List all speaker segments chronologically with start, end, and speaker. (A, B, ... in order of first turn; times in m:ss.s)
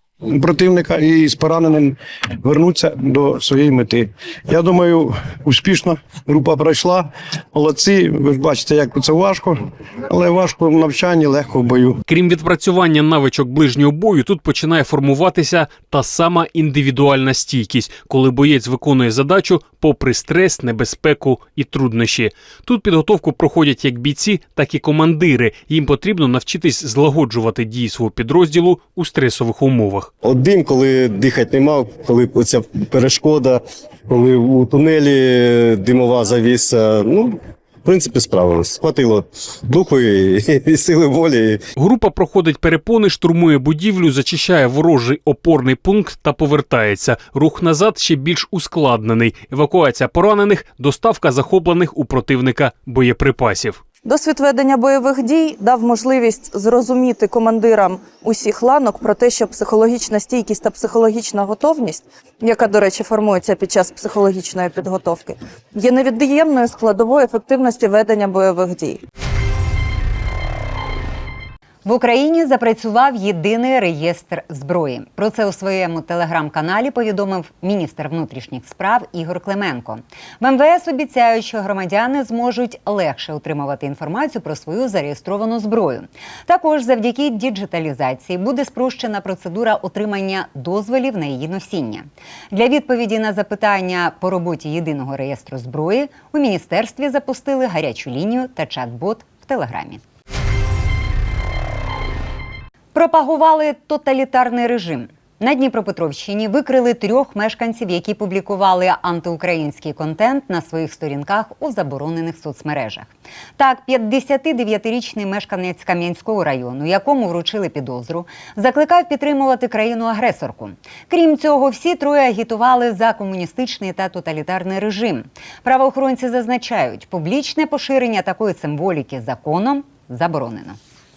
0:00.2-0:12.0 A
0:12.1-0:30.1 B
0:30.2-0:41.6 C
0:41.8-0:53.8 B
0:54.0-1:09.0 D
1:11.8-1:40.0 E
1:42.9-2:10.8 E